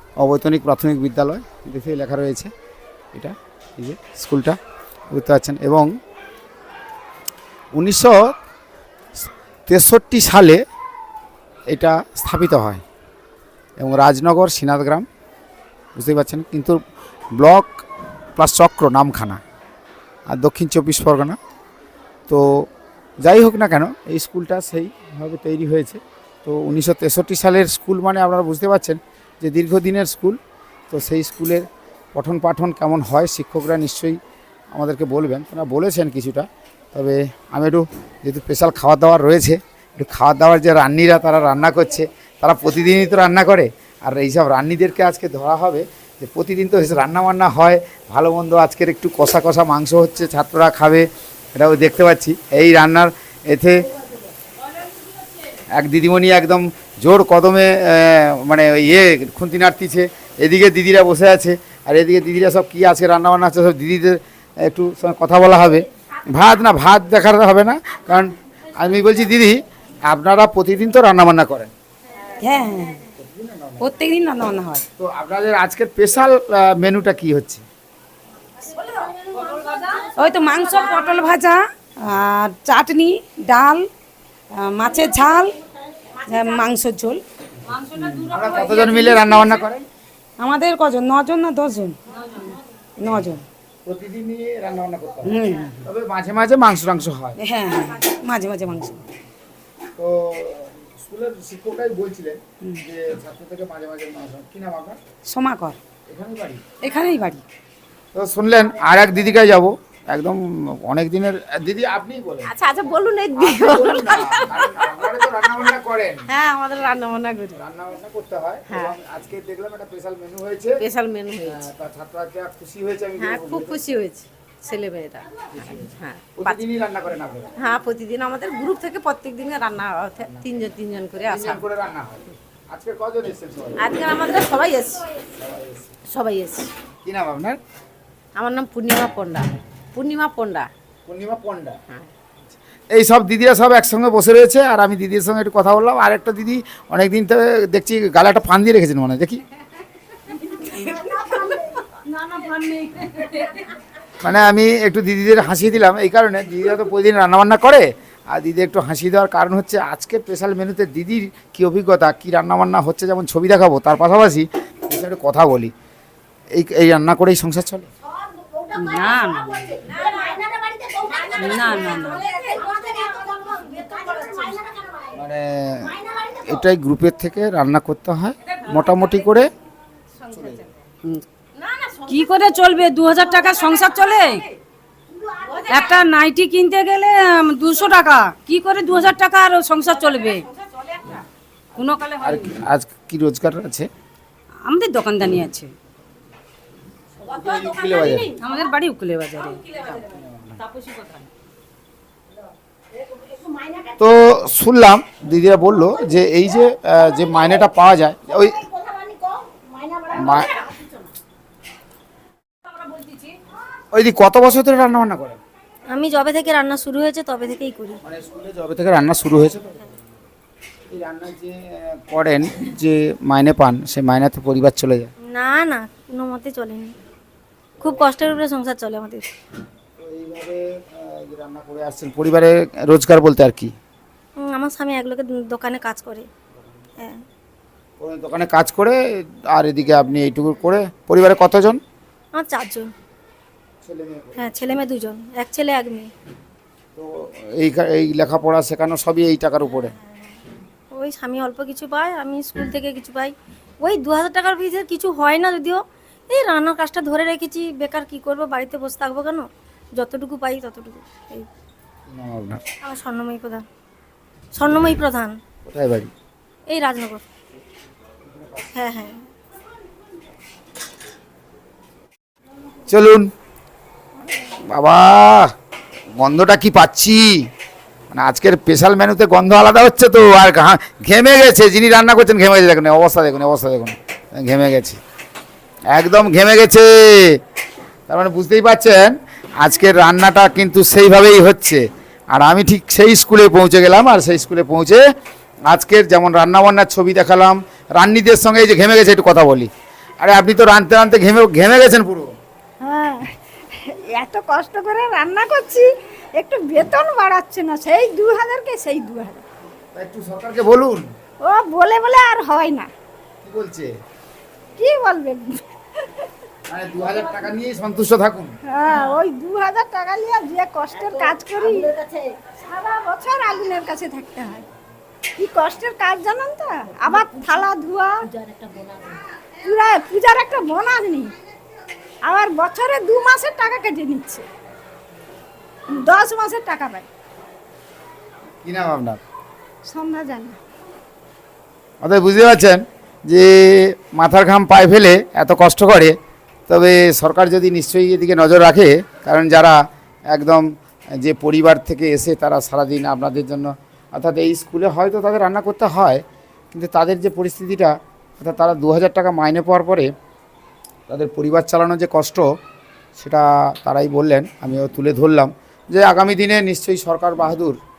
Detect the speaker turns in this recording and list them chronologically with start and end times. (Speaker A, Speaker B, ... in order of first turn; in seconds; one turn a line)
Speaker A: 0.2-2.5
Speaker A: 3.1-4.6
Speaker A: 5.1-5.9
Speaker A: 7.7-8.3
Speaker A: 9.7-10.6
Speaker A: 11.7-12.8
Speaker A: 13.8-15.1
Speaker A: 15.9-16.8
Speaker A: 17.4-17.8
Speaker A: 18.4-19.4
Speaker A: 20.3-21.4
Speaker A: 22.3-22.6
Speaker A: 23.2-30.4
Speaker A: 30.9-34.2
Speaker A: 34.7-53.9
Speaker A: 55.7-71.7
Speaker B: 72.4-72.9
Speaker A: 73.2-73.9
Speaker B: 73.8-74.8
Speaker A: 75.0-77.6
Speaker B: 80.0-81.5
Speaker C: 80.3-81.4
Speaker B: 82.3-83.8
Speaker B: 84.8-85.5
Speaker C: 84.8-85.2
Speaker B: 86.3-87.2
Speaker C: 86.5-87.0
Speaker A: 87.9-89.9
Speaker B: 88.4-89.1
Speaker B: 90.5-91.9
Speaker B: 93.1-93.4
Speaker A: 93.8-97.4
Speaker C: 97.8-98.8
Speaker B: 98.3-98.9
Speaker A: 100.0-105.0
Speaker B: 105.4-105.7
Speaker A: 106.1-106.6
Speaker B: 106.8-107.4
Speaker C: 107.0-107.2
Speaker A: 108.1-116.3
Speaker D: 112.5-114.4
Speaker D: 116.3-117.5
Speaker A: 117.5-120.8
Speaker D: 120.8-121.5
Speaker A: 121.4-123.8
Speaker D: 123.2-126.5
Speaker A: 125.6-127.5
Speaker D: 127.6-131.6
Speaker A: 130.2-130.5
Speaker A: 131.2-134.0
Speaker D: 133.8-134.9
Speaker A: 135.4-135.9
Speaker D: 136.1-136.5
Speaker A: 137.0-137.6
Speaker D: 138.4-140.6
Speaker A: 141.1-141.8
Speaker A: 142.9-149.4
Speaker A: 154.2-165.7
Speaker A: 166.5-167.9
Speaker B: 168.8-169.6
Speaker C: 168.8-169.7
Speaker C: 171.3-172.2
Speaker B: 171.3-172.1
Speaker A: 175.1-179.5
Speaker A: 180.3-180.7
Speaker B: 182.1-184.4
Speaker C: 182.1-184.2
Speaker B: 185.7-190.4
Speaker C: 185.7-186.4
Speaker C: 187.7-188.0
Speaker C: 189.8-190.3
Speaker B: 191.8-192.2
Speaker A: 192.2-193.9
Speaker B: 194.7-195.7
Speaker A: 197.2-198.3
Speaker B: 198.4-199.6
Speaker C: 198.6-199.6
Speaker A: 200.0-200.5
Speaker A: 204.0-208.6
Speaker A: 210.1-210.6
Speaker A: 213.9-215.4
Speaker E: 215.9-218.0
Speaker A: 218.0-219.8
Speaker A: 220.9-225.1
Speaker E: 225.3-226.9
Speaker E: 227.8-229.2
Speaker A: 230.0-233.7
Speaker E: 234.4-236.3
Speaker A: 238.0-241.8
Speaker E: 242.3-242.9
Speaker A: 243.8-244.8
Speaker E: 244.4-246.1
Speaker A: 246.9-249.9
Speaker E: 250.0-250.3
Speaker E: 250.9-261.5
Speaker A: 262.1-262.6
Speaker E: 262.8-263.6
Speaker E: 264.5-265.4
Speaker A: 265.6-266.1
Speaker E: 266.7-267.2
Speaker E: 268.7-269.2
Speaker A: 272.9-273.3
Speaker A: 274.7-275.5
Speaker A: 276.1-277.5
Speaker A: 278.1-285.0
Speaker A: 285.9-287.4
Speaker A: 288.1-295.0
Speaker A: 295.7-299.7
Speaker A: 300.2-302.3
Speaker C: 302.8-309.4
Speaker A: 309.9-311.1
Speaker C: 311.4-312.9
Speaker A: 313.4-313.9
Speaker C: 314.8-315.6
Speaker A: 316.7-318.6
Speaker C: 318.7-321.9
Speaker C: 322.6-324.6
Speaker C: 325.4-328.1
Speaker C: 329.6-331.3
Speaker C: 332.2-334.4
Speaker C: 335.9-337.1
Speaker A: 338.6-339.2
Speaker C: 339.8-340.6
Speaker A: 342.0-346.2
Speaker A: 346.7-349.8
Speaker A: 350.3-350.6
Speaker A: 351.2-360.1
Speaker A: 361.1-362.4
Speaker A: 363.1-367.8